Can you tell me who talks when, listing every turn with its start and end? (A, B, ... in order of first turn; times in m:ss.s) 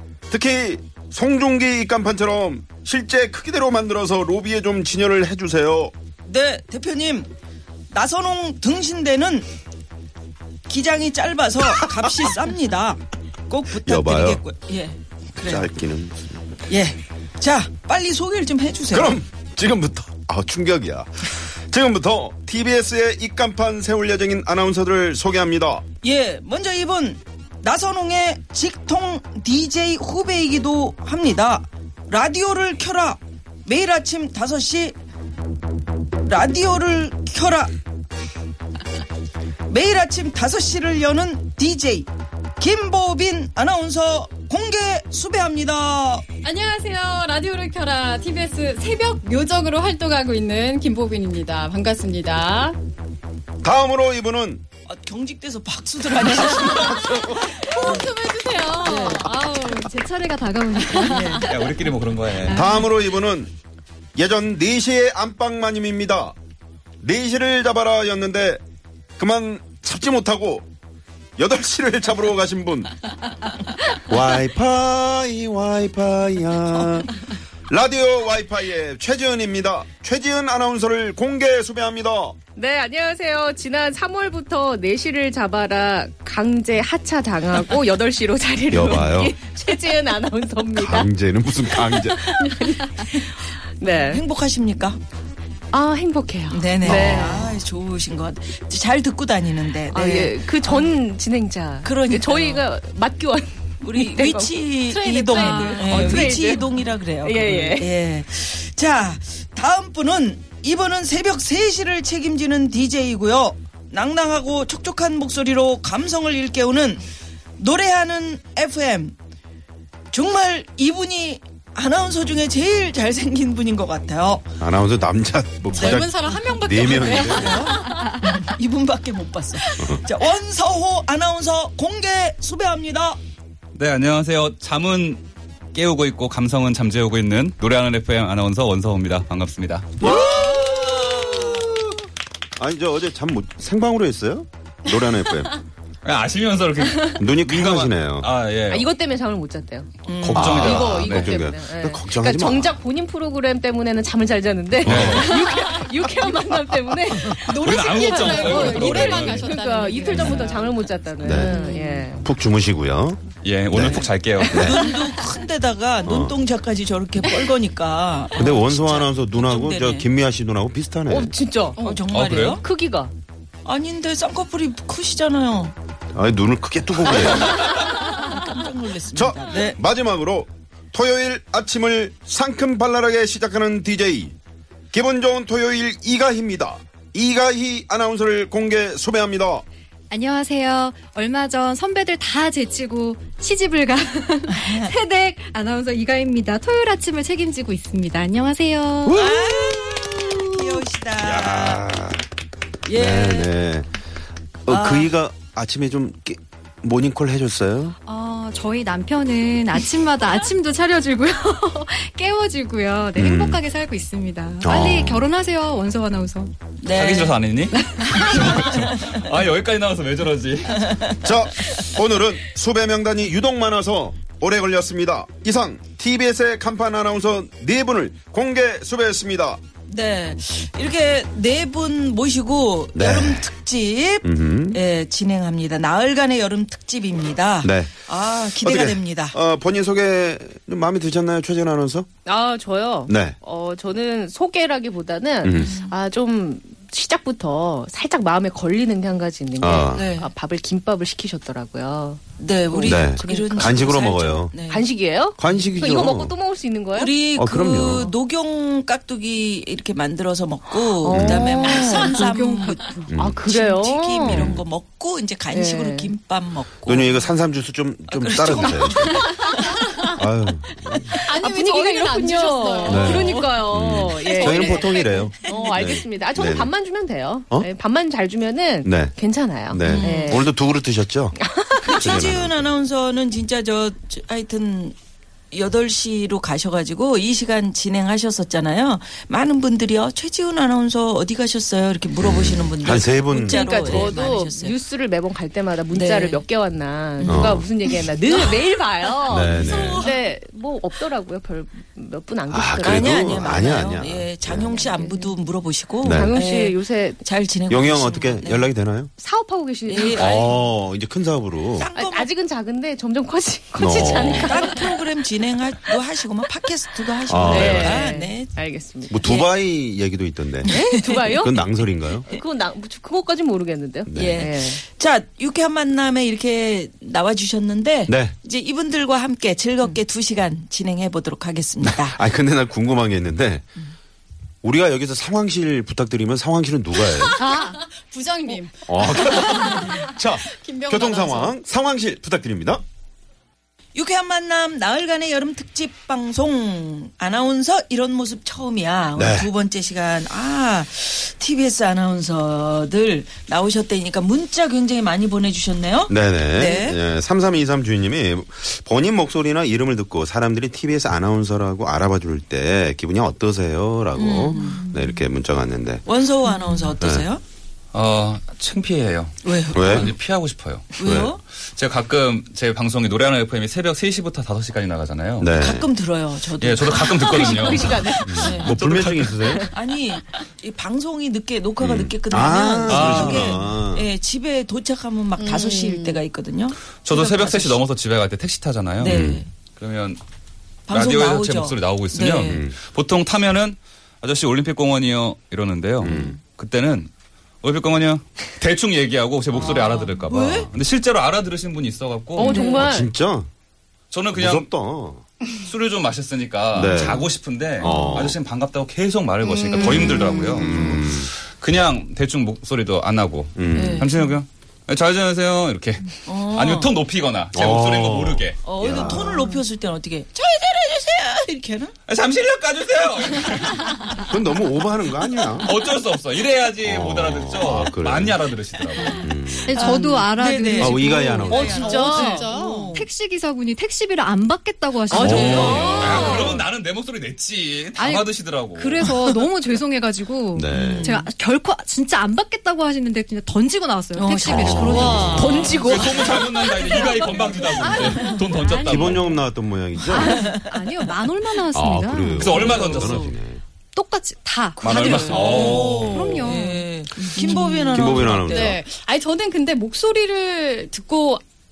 0:00.3-0:05.9 A
0:06.3-0:07.3 B
0:07.9-0:09.5 B
0:10.7-0:15.7 B
0:13.8-0:14.4 A
0:15.4-0:16.4 A
0:16.7-0:19.2 B
0:18.9-0:25.8 A
0:26.0-0:35.0 B
0:36.3-0:37.7 B
0:39.7-0:46.2 B
0:46.4-0:52.8 C
0:53.6-0:54.6 A
0:54.9-0:58.1 B
0:57.0-0:57.5 A
0:57.4-0:59.9 C
0:58.8-0:59.3 B
0:58.8-1:01.6 D
1:01.0-1:01.4 B
1:01.4-1:02.6 E
1:02.5-1:03.5 A
1:02.5-1:02.9 D
1:04.2-1:06.4 A
1:07.0-1:08.6 A
1:09.2-1:10.7 A
1:11.4-1:12.9 A
1:14.1-1:17.1 A
1:17.7-1:22.4 A
1:22.6-1:31.1 F
1:28.7-1:29.4 A
1:30.7-1:32.3 A
1:31.7-1:33.1 F
1:33.0-1:33.5 B
1:33.8-1:34.2 F
1:34.1-1:35.0 B
1:35.7-1:37.6 F
1:36.5-1:40.9 B
1:36.8-1:37.3 A
1:39.9-1:48.0 F
1:41.8-1:42.7 B
1:43.8-1:57.1 B
1:45.0-1:45.7 C
1:45.3-1:46.6 D
1:57.6-1:59.2 B
2:00.1-2:04.5 B
2:04.6-2:07.7 A
2:05.7-2:07.8 C
2:07.1-2:13.2 B
2:13.8-2:20.0 E
2:20.0-2:22.0 A
2:20.0-2:21.7 B
2:22.6-2:25.6 A
2:26.0-2:28.9 E
2:27.2-2:28.3 A
2:28.7-2:29.9 F
2:30.1-2:30.6 B
2:30.1-2:31.4 E
2:30.3-2:32.7 A
2:30.6-2:42.3 F
2:34.8-2:35.4 A
2:34.8-2:35.5 E
2:37.5-2:39.5 E
2:37.5-2:40.8 C
2:41.2-2:41.6 A
2:41.5-2:42.1 D
2:42.2-2:44.8 A
2:43.4-2:44.6 E
2:44.4-2:44.9 F
2:44.5-2:50.1 B
2:46.1-2:46.4 A
2:48.4-2:51.4 A
2:51.1-2:51.8 F
2:51.8-2:52.1 C
2:51.8-2:52.6 B
2:52.1-2:52.6 E
2:52.6-2:53.1 F
2:53.6-2:55.8 B
2:56.2-2:57.8 A
2:57.1-2:59.8 B
2:59.1-3:04.4 A
3:04.9-3:09.6 A
3:10.1-3:19.2 D
3:14.5-3:15.0 B
3:19.0-3:22.2 A
3:19.1-3:21.8 B
3:22.9-3:23.6 B
3:22.9-3:23.9 A
3:24.7-3:28.0 A
3:24.7-3:25.1 B
3:28.1-3:36.5 D
3:33.2-3:33.6 A
3:34.6-3:35.3 A
3:36.8-3:37.4 B
3:36.9-3:41.2 E
3:37.7-3:38.6 D
3:41.2-3:49.6 A
3:49.9-3:59.4 B
3:53.0-3:53.5 A
3:54.2-3:54.8 A
3:57.6-3:57.9 A
3:58.6-4:02.1 A
4:02.2-4:17.2 F
4:03.1-4:03.4 A
4:05.4-4:05.8 A
4:05.6-4:05.9 B
4:09.6-4:10.1 A
4:09.9-4:10.3 B
4:12.4-4:14.8 B
4:12.8-4:14.6 A
4:15.4-4:16.3 A
4:16.9-4:27.3 B
4:17.4-4:18.1 A
4:21.0-4:22.2 F
4:21.1-4:21.6 A
4:21.6-4:23.1 D
4:23.1-4:23.4 A
4:23.1-4:24.6 F
4:24.2-4:24.6 A
4:25.5-4:26.1 F
4:26.8-4:29.4 A
4:28.1-4:29.6 B
4:30.1-4:31.1 A
4:31.1-4:40.5 F
4:31.1-4:33.5 C
4:32.9-4:36.7 A
4:34.3-4:34.8 B
4:34.5-4:35.0 C
4:38.8-4:39.1 A
4:39.7-4:41.4 A
4:39.8-4:40.5 B
4:41.4-4:42.0 F
4:41.8-4:45.0 B
4:41.9-4:42.7 A
4:45.5-4:54.8 B
4:52.2-4:54.1 A
4:53.4-5:03.9 F
4:55.9-4:56.4 B
4:57.2-4:58.6 B
4:57.2-4:57.7 A
4:59.3-5:00.1 A
4:59.4-5:00.2 B
5:02.5-5:04.8 A
5:02.8-5:08.7 B
5:04.8-5:05.3 F
5:06.0-5:06.4 A
5:06.0-5:07.2 F
5:07.7-5:09.1 A
5:09.2-5:10.5 F
5:09.9-5:10.7 B
5:10.1-5:11.9 A
5:11.8-5:12.3 B
5:12.0-5:15.0 F
5:13.8-5:14.6 A
5:14.0-5:18.6 B
5:17.3-5:18.0 A
5:17.4-5:19.2 F
5:19.1-5:22.3 A
5:19.2-5:19.5 B
5:20.6-5:21.4 B
5:20.7-5:24.8 F
5:24.1-5:24.5 A
5:24.1-5:32.2 B
5:28.1-5:28.3 A
5:31.8-5:33.7 A
5:34.6-5:37.4 A
5:37.2-5:41.6 C
5:38.9-5:42.8 A
5:44.0-5:57.0 B
5:49.2-5:49.5 A
5:56.1-6:06.0 A
6:04.2-6:04.9 B
6:06.1-6:07.4 B
6:07.0-6:07.3 A
6:07.9-6:15.5 E
6:09.4-6:10.1 B
6:09.7-6:10.1 A
6:11.0-6:11.4 B
6:11.0-6:11.3 A
6:15.4-6:15.9 A
6:15.5-6:18.7 B
6:16.6-6:19.6 E
6:17.1-6:18.6 F
6:18.2-6:19.7 A
6:19.7-6:27.8 B
6:21.8-6:24.1 A
6:22.9-6:23.6 E
6:25.4-6:26.2 C
6:27.0-6:30.2 E
6:29.0-6:29.5 B
6:29.0-6:29.4 A
6:30.9-6:32.7 B
6:30.9-6:37.1 E
6:32.5-6:32.8 A
6:36.0-6:36.4 A
6:36.1-6:36.3 B
6:37.6-6:42.8 E
6:39.6-6:40.7 B
6:42.4-6:43.1 F
6:42.4-6:42.9 B
6:42.6-6:43.5 A
6:44.1-6:44.7 E
6:44.4-6:45.2 A
6:45.6-6:58.6 E
6:46.7-6:48.4 A
6:47.9-6:48.2 B
6:49.8-6:51.3 A
6:53.6-6:54.1 A
6:53.7-6:54.3 B
6:56.3-6:56.9 B
6:57.5-6:59.6 A
6:58.6-7:02.0 B
7:02.1-7:04.3 E
7:04.3-7:05.7 A
7:05.6-7:09.3 E
7:06.8-7:08.4 A
7:09.1-7:16.2 D
7:09.2-7:10.0 A
7:09.7-7:13.1 B
7:10.8-7:11.9 A
7:11.6-7:12.9 C
7:15.2-7:16.4 A
7:15.3-7:19.0 E
7:15.5-7:16.6 C
7:18.0-7:29.4 D
7:20.6-7:21.1 A
7:20.7-7:21.3 B
7:24.2-7:26.0 B
7:24.5-7:25.6 A
7:25.8-7:29.2 E
7:28.8-7:30.6 A
7:30.0-7:32.6 D
7:30.3-7:30.6 B
7:31.7-7:33.6 A
7:32.4-7:33.2 E
7:32.5-7:33.3 B
7:33.9-7:37.9 D
7:34.8-7:38.7 B
7:34.8-7:36.3 E
7:37.9-7:41.4 C
7:37.9-7:38.8 A